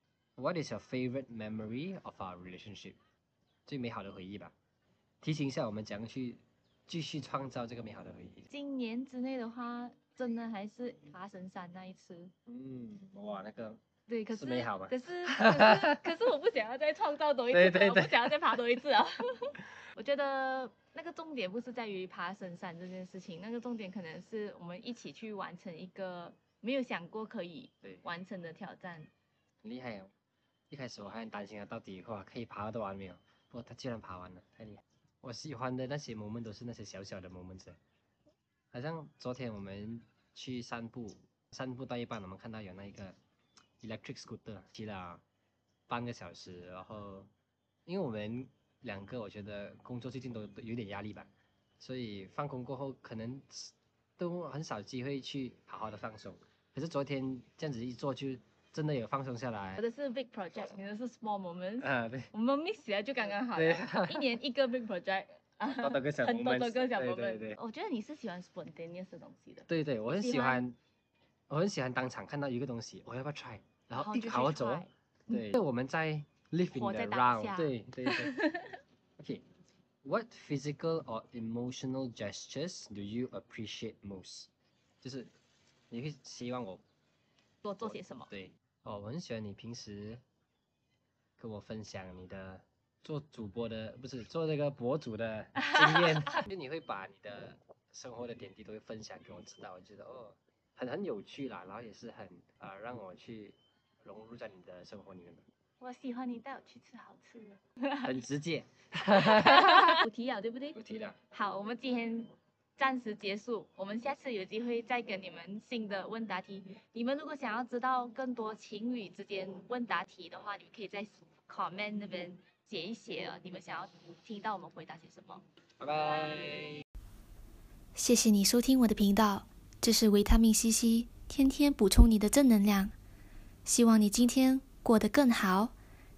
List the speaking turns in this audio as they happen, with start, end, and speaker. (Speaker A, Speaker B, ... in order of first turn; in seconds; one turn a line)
Speaker A: 0.4-3.0
Speaker A: 3.7-4.5
Speaker A: 5.2-8.5
Speaker B: 8.5-12.3
Speaker A: 12.5-13.8
Speaker B: 14.1-29.1
Speaker A: 14.3-16.1
Speaker A: 17.5-18.4
Speaker A: 29.6-30.1
Speaker A: 30.7-37.8
Speaker A: 38.7-43.1
Speaker A: 43.8-45.2
Speaker A: 45.9-47.3
Speaker A: 47.9-59.8
Speaker B: 59.8-70.7
Speaker A: 61.8-62.3
Speaker A: 63.4-64.3
Speaker A: 65.8-67.6
Speaker A: 69.7-70.8
Speaker A: 71.5-78.3
Speaker B: 74.0-74.9
Speaker B: 76.7-78.8
Speaker A: 79.2-79.4
Speaker A: 80.0-84.5
Speaker A: 85.0-85.3
Speaker A: 85.9-86.8
Speaker B: 87.6-88.3
Speaker A: 87.8-90.2
Speaker A: 91.4-105.4
Speaker B: 105.8-107.6
Speaker A: 108.0-110.0
Speaker B: 110.0-110.8
Speaker A: 110.7-111.2
Speaker B: 111.3-125.5
Speaker A: 125.8-126.8
Speaker C: 128.0-132.9
Speaker C: 133.7-135.7